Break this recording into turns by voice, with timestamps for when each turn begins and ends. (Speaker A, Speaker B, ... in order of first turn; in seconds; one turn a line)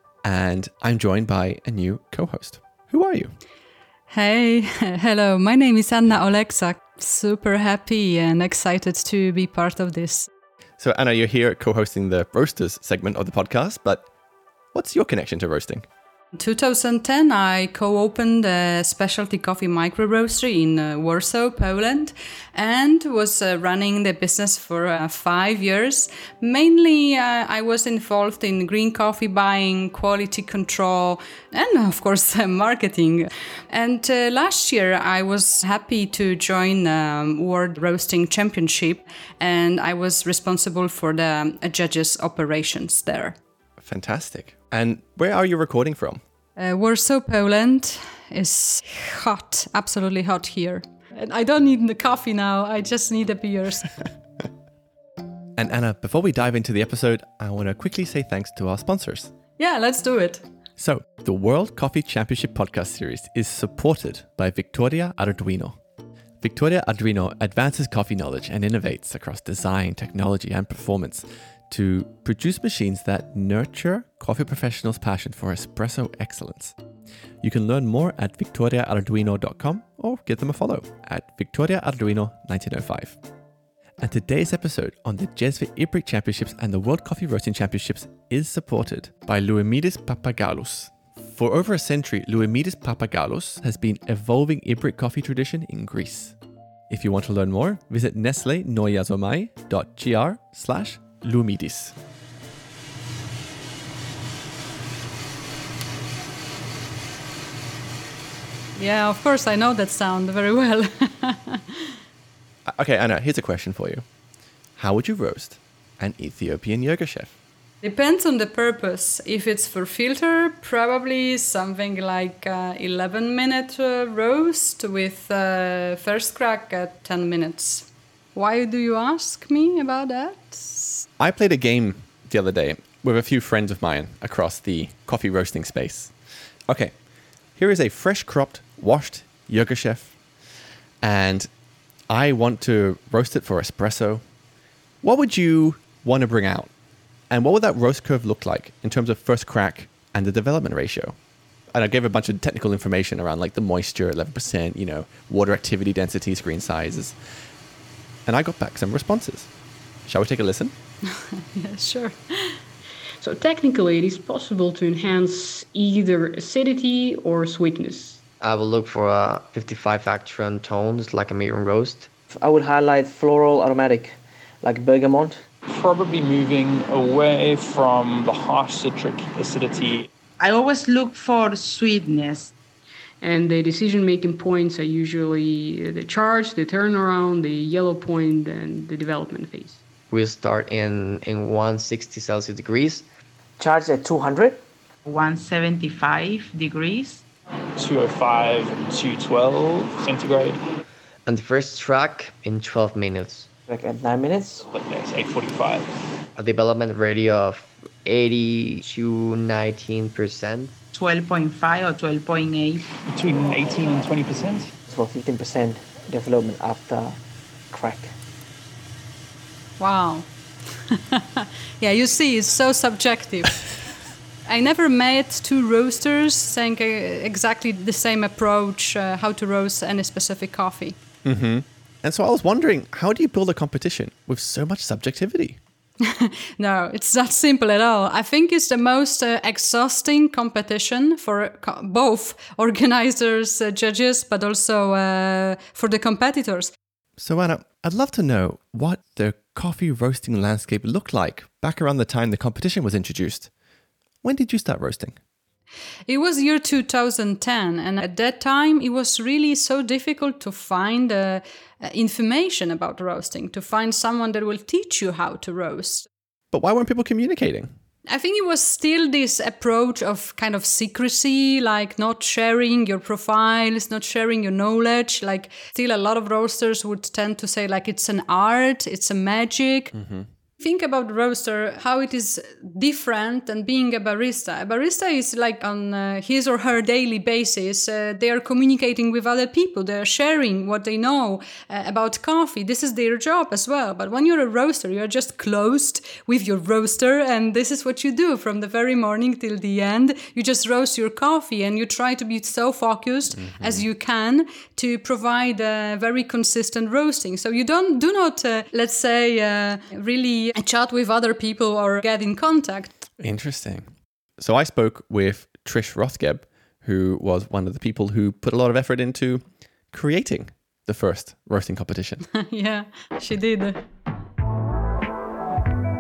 Speaker A: 0.2-3.4
Speaker B: 4.1-10.3
Speaker A: 10.8-14.1
Speaker A: 14.7-15.9
Speaker B: 16.3-43.4
Speaker A: 43.8-46.2
Speaker B: 46.6-54.0
Speaker A: 55.6-59.3
Speaker B: 59.6-60.5
Speaker A: 60.8-65.8
Speaker A: 66.4-76.8
Speaker A: 77.4-83.2
Speaker A: 84.0-96.4
Speaker A: 96.9-102.0
Speaker B: 108.8-111.8
Speaker A: 112.7-114.0
Speaker A: 114.8-117.3
Speaker B: 117.8-131.1
Speaker A: 131.2-136.2
Speaker A: 136.7-137.0
Speaker A: 137.5-140.2
Speaker A: 141.0-141.5
Speaker A: 142.1-144.2
Speaker A: 145.0-146.7
Speaker A: 147.3-151.2
Speaker A: 151.7-157.2
Speaker A: 158.2-159.5
Speaker A: 160.1-160.7
Speaker B: 161.1-162.6
Speaker C: 163.2-168.2
Speaker D: 168.4-172.1
Speaker E: 172.3-175.4
Speaker F: 175.7-180.1
Speaker G: 180.4-182.5
Speaker C: 183.2-189.8
Speaker D: 190.1-193.1
Speaker E: 193.6-194.6
Speaker G: 195.1-197.2
Speaker F: 197.8-200.6
Speaker D: 201.2-203.5
Speaker E: 203.7-204.7
Speaker F: 204.7-205.9
Speaker D: 206.3-210.8
Speaker G: 210.9-212.9
Speaker F: 213.1-214.7
Speaker E: 214.8-217.2
Speaker E: 217.7-218.1
Speaker B: 219.8-223.7
Speaker B: 224.5-231.0
Speaker A: 231.2-235.6
Speaker B: 236.0-246.7
Speaker A: 247.2-253.5
Speaker A: 254.2-255.2
Speaker B: 256.1-266.1
Speaker A: 266.5-267.7
Speaker B: 268.1-279.9
Speaker A: 279.9-280.3
Speaker B: 280.6-312.9
Speaker A: 303.3-303.9
Speaker A: 313.2-322.2
Speaker B: 322.4-323.8